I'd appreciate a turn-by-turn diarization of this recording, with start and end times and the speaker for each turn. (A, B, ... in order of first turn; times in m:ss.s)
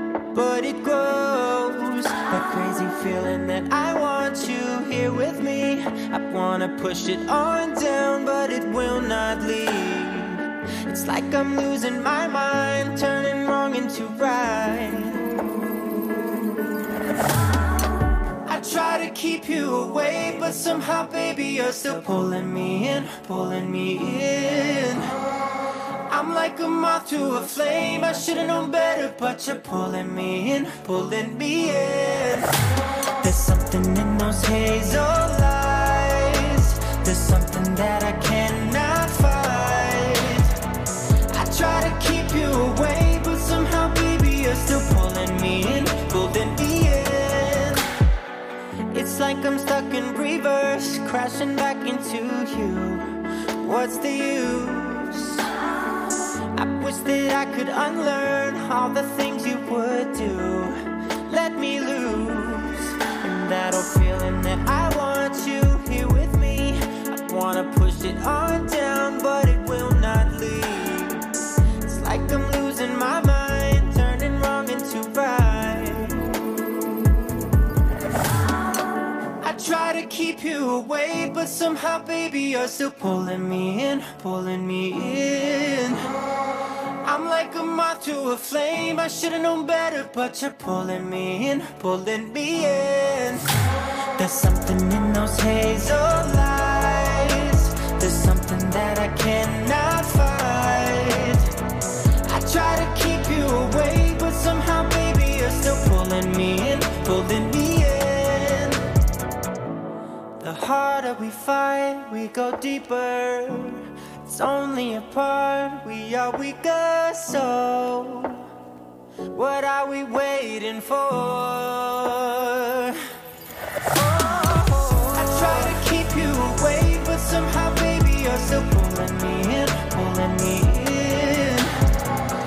0:00.3-0:15.3 A
0:18.4-0:25.1 A
0:26.1-0:32.5 A
0:33.2-0:40.5 A
0:41.3-0:47.9 A
0:48.9-0:53.1 A
0:53.6-0:55.5 A
0:56.6-1:11.3 A
1:11.8-1:16.3 A
1:19.4-1:26.1 A
1:27.0-1:33.6 A
1:34.2-1:41.5 A
1:42.3-1:48.8 A
1:50.4-1:58.4 A
1:59.3-2:03.0 A
2:03.9-2:11.7 A